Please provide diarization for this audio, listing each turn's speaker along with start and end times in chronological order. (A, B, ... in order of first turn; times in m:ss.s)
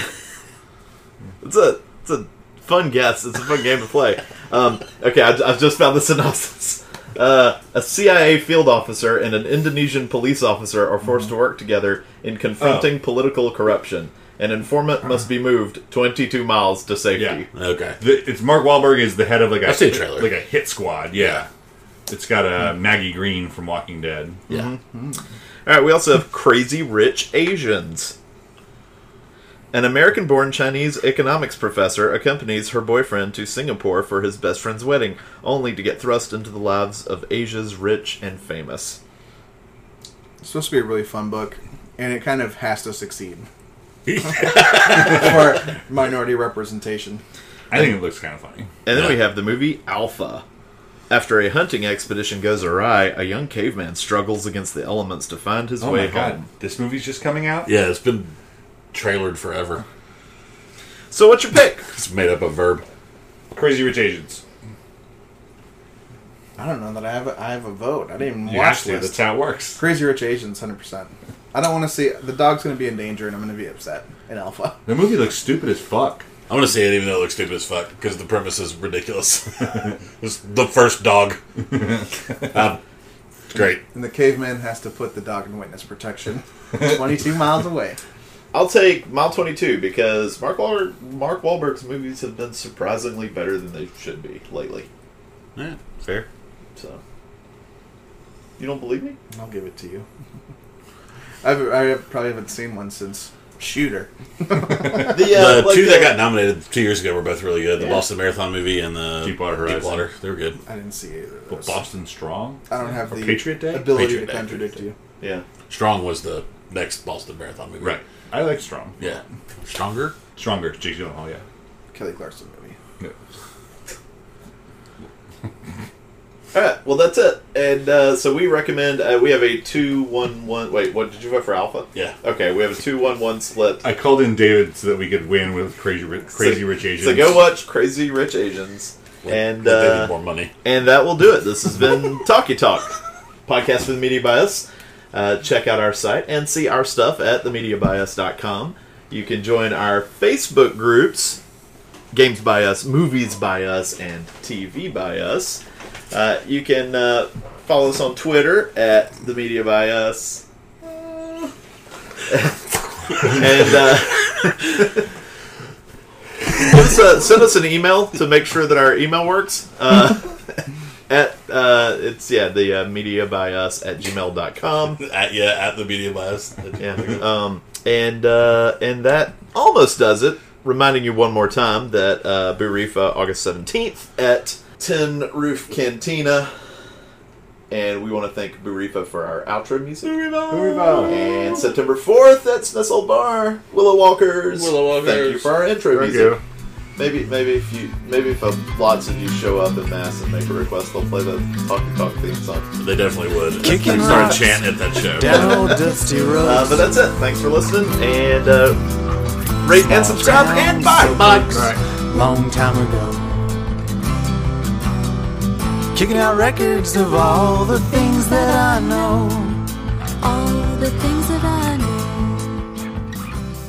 0:01.4-0:17.5 A
0:12.6-0:12.9 B
0:17.1-0:17.4 B
0:17.5-0:18.0 C
0:18.0-0:21.5 B
0:19.6-0:20.3 C
0:21.1-0:21.4 C
0:22.1-0:24.4 B
0:24.5-0:24.8 A
0:25.6-0:28.1 A
0:29.7-0:39.0 A
0:40.4-0:43.5 D
0:44.1-0:47.2 D
0:44.4-0:45.1 C
0:47.7-0:48.7 B
0:48.8-0:50.4 A
0:48.9-0:49.2 C
0:51.1-0:56.5 A
0:55.8-0:57.7 B
0:57.6-0:58.3 C
0:58.9-0:59.8 C
1:01.1-1:01.8 A
1:01.9-1:02.8 C
1:03.5-1:04.4 B
1:06.6-1:09.2 D
1:08.4-1:09.8 B
1:09.8-1:14.8 D
1:14.8-1:16.3 B
1:16.5-1:22.8 C
1:23.5-1:23.8 C
1:23.5-1:28.0 D
1:28.5-1:34.9 A
1:35.6-1:36.3 C
1:36.8-1:37.0 A
1:38.6-1:39.2 A
1:39.3-1:40.0 D
1:41.4-1:45.2 D
1:45.0-1:46.2 A
1:45.1-1:50.6 C
1:49.2-1:50.0 B
1:50.6-1:51.8 D
1:51.5-1:54.0 B
1:52.7-1:54.9 D
1:53.9-1:54.8 C
1:55.7-1:58.0 C
1:57.8-1:58.9 B
1:59.0-2:00.1 C
2:00.4-2:01.4 B
2:01.9-2:02.8 D
2:06.5-2:13.8 A
2:13.8-2:17.4 B
2:16.3-2:22.9 A
2:19.2-2:20.5 C
2:23.4-2:31.4 A
2:32.1-2:40.4 A
2:42.3-2:42.6 A
2:43.1-2:44.9 A
2:46.6-2:50.4 A
2:51.1-2:55.0 A
2:55.0-2:57.2 C
2:56.8-3:06.5 A
3:07.7-3:16.4 A
3:10.5-3:11.2 B
3:14.5-3:15.6 C
3:15.9-3:16.4 B
3:17.0-3:22.7 A
3:22.8-3:25.7 C
3:23.6-3:26.9 E
3:25.2-3:25.8 A
3:26.4-3:28.9 A
3:29.6-3:31.7 A
3:29.7-3:33.6 E
3:31.5-3:31.8 B
3:35.9-3:39.6 E
3:36.1-3:39.3 F
3:40.2-3:42.7 F